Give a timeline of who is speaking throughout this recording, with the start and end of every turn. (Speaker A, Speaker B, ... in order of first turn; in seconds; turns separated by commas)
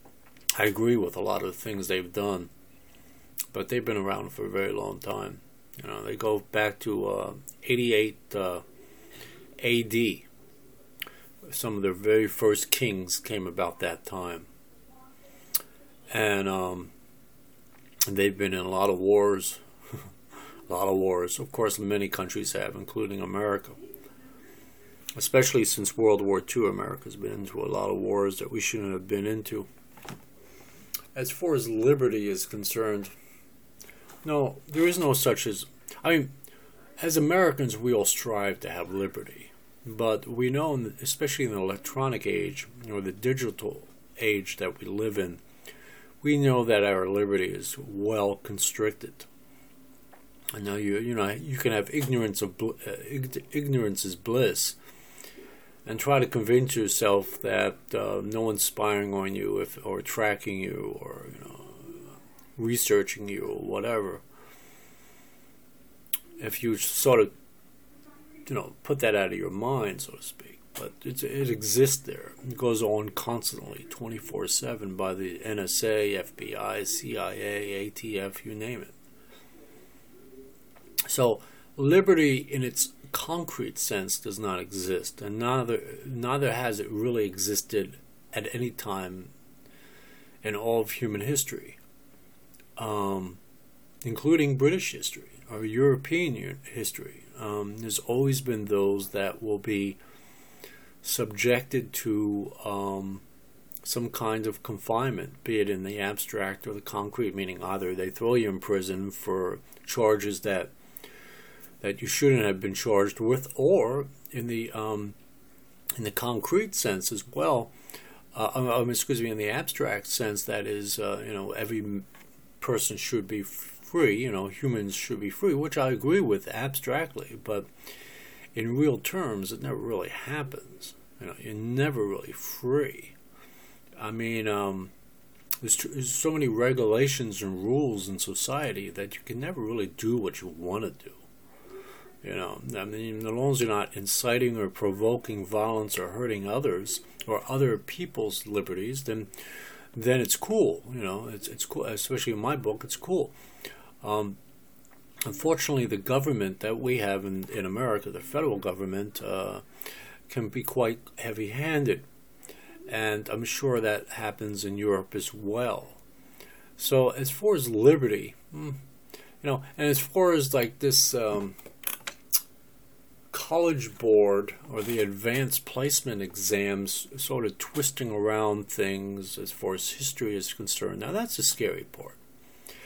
Speaker A: 0.6-2.5, Speaker A: 3.5-8.6, Speaker A: 9.6-10.3, Speaker A: 11.4-14.5, Speaker A: 16.1-16.9, Speaker A: 18.1-19.6, Speaker A: 20.7-23.8, Speaker A: 25.1-29.7, Speaker A: 31.1-33.1, Speaker A: 34.2-36.3, Speaker A: 37.0-45.4, Speaker A: 46.2-49.3, Speaker A: 50.5-54.8, Speaker A: 55.9-64.2, Speaker A: 66.4-67.3, Speaker A: 68.5-79.0, Speaker A: 81.1-89.3, Speaker A: 90.4-91.8, Speaker A: 92.8-93.4, Speaker A: 94.0-100.0, Speaker A: 101.0-103.2, Speaker A: 103.8-110.7, Speaker A: 111.8-115.2, Speaker A: 116.0-117.7, Speaker A: 118.3-122.1, Speaker A: 122.6-127.7, Speaker A: 128.6-133.2, Speaker A: 134.0-134.9, Speaker A: 135.6-141.2, Speaker A: 142.2-149.4, Speaker A: 149.9-153.3, Speaker A: 154.0-154.4, Speaker A: 155.2-159.6, Speaker A: 160.3-162.1, Speaker A: 162.9-166.0, Speaker A: 166.8-168.8, Speaker A: 169.4-171.6, Speaker A: 173.3-182.2